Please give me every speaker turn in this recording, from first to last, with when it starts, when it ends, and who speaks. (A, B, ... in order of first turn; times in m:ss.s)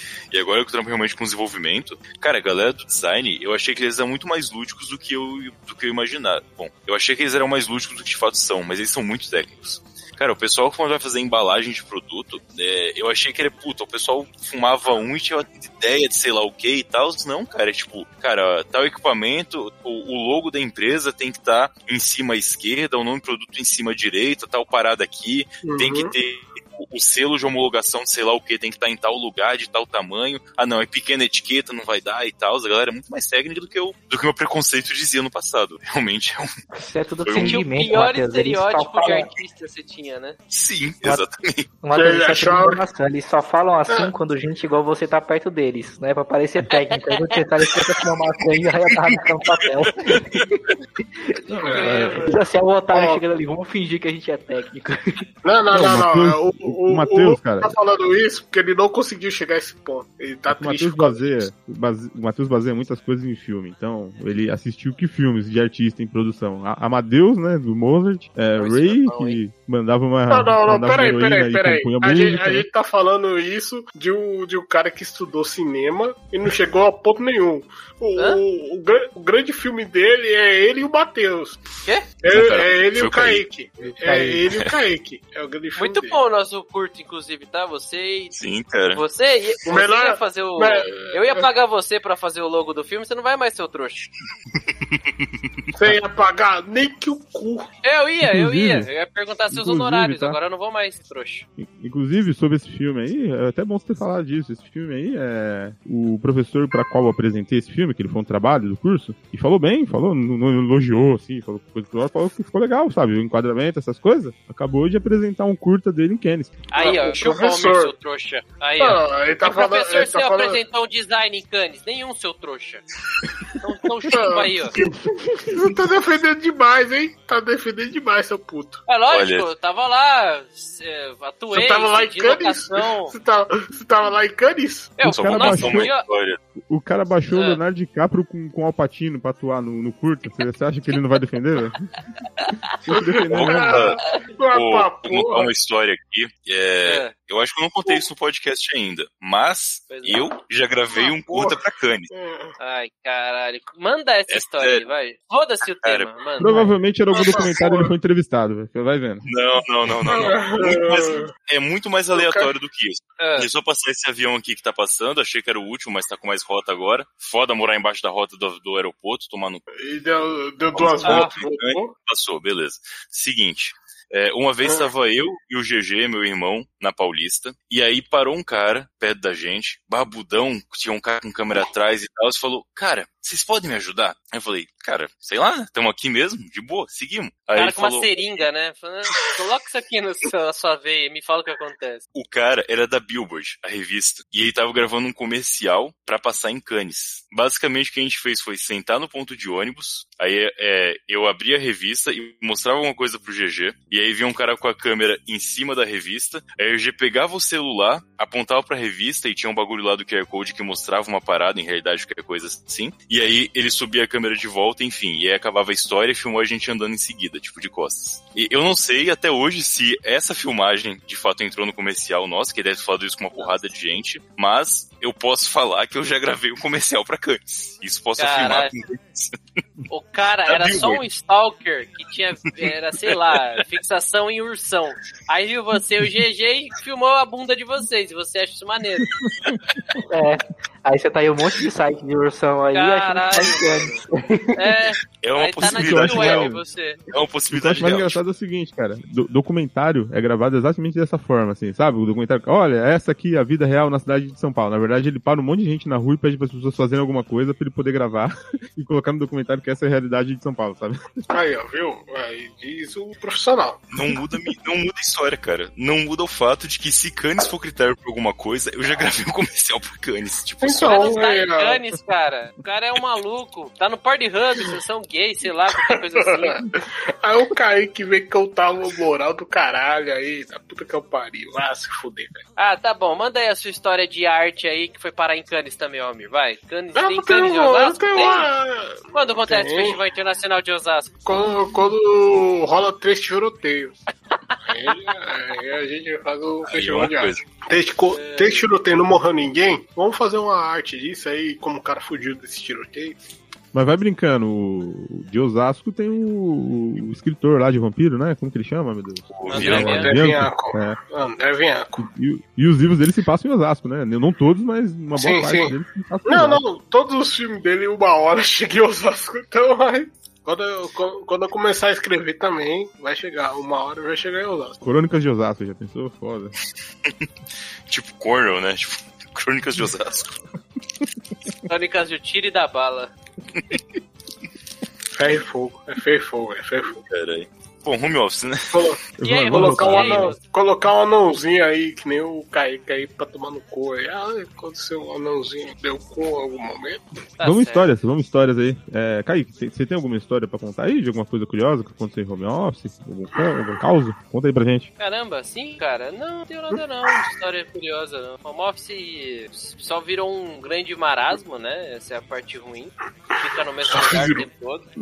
0:00.3-0:36.5 A
0:25.6-0:26.1 B
0:36.8-0:39.3 C
0:37.2-0:37.6 A
0:37.4-0:40.4 D
0:40.5-0:41.7 A
0:41.8-0:50.6 C
0:41.9-0:42.8 B
0:51.3-0:55.0 C
0:51.5-0:52.2 D
0:51.5-0:52.4 B
0:51.8-0:52.1 E
0:52.9-0:53.2 B
0:55.4-1:01.4 B
0:55.7-0:57.7 E
1:00.5-1:12.6 E
1:08.6-1:09.4 D
1:10.3-1:21.6 B
1:21.8-1:22.2 D
1:22.2-1:26.2 B
1:22.3-1:23.4 A
1:24.0-1:24.4 C
1:25.8-1:28.3 D
1:28.3-1:29.0 A
1:28.9-1:34.1 D
1:29.6-1:31.5 B
1:35.7-1:37.7 B
1:37.8-1:41.4 D
1:38.2-1:38.9 E
1:39.5-1:40.4 E
1:41.6-1:56.6 E
1:56.7-2:02.8 D
1:56.8-1:57.9 B
1:58.8-2:00.6 B
2:03.6-2:04.7 D
2:04.1-2:08.8 B
2:08.9-2:13.1 D
2:09.1-2:09.5 A
2:11.5-2:15.0 B
2:15.0-2:16.0 D
2:15.0-2:15.9 E
2:15.1-2:16.4 A
2:16.6-2:21.9 E
2:17.3-2:17.6 D
2:22.4-2:22.7 D
2:22.8-2:23.8 E
2:22.9-2:25.5 B
2:23.3-2:24.0 A
2:24.5-2:32.1 A
2:26.8-2:27.1 D
2:29.9-2:30.2 D
2:30.9-2:31.6 B
2:32.1-2:32.5 B
2:32.6-2:36.7 D
2:34.3-2:34.8 A
2:35.8-2:36.1 A
2:36.4-2:39.2 E
2:37.2-2:37.9 B
2:39.2-2:49.6 A
2:40.1-2:41.3 B
2:42.1-2:42.5 B
2:43.2-2:43.5 D
2:49.8-2:51.9 B
2:50.7-3:08.1 A
2:51.0-2:51.3 D
3:07.5-3:12.0 D
3:12.1-3:49.6 A
3:48.2-3:48.8 D
3:49.9-3:59.1 D
3:50.4-3:51.0 A
3:52.5-3:53.4 A
4:00.1-4:04.0 C
4:02.7-4:04.0 D
4:04.5-4:07.0 D
4:05.2-4:06.5 A
4:05.6-4:06.6 E
4:07.1-4:08.2 A
4:07.5-4:21.0 E
4:21.3-4:23.9 B
4:23.9-4:31.2 A
4:30.6-4:31.8 B
4:30.8-4:36.6 D
4:35.7-4:42.4 B
4:42.6-4:48.5 D
4:47.0-4:50.0 B
4:49.1-4:51.2 D
4:51.2-4:53.9 B
4:54.6-5:03.2 B
4:56.7-4:57.4 A
4:58.1-4:58.7 D
5:03.7-5:11.0 E
5:09.4-5:10.0 A
5:09.5-5:10.2 D
5:09.6-5:12.0 B
5:12.0-5:16.6 E
5:15.2-5:15.7 B
5:16.2-5:24.8 B
5:24.8-5:26.5 E
5:27.9-5:30.4 A
5:31.7-5:33.1 D
5:35.1-5:37.0 B
5:37.1-5:38.8 A
5:38.7-5:47.0 B
5:39.2-5:40.4 E
5:39.2-5:40.4 D
5:47.4-5:47.9 D
5:47.4-5:54.9 E
5:55.0-6:04.8 D
6:03.9-6:04.4 B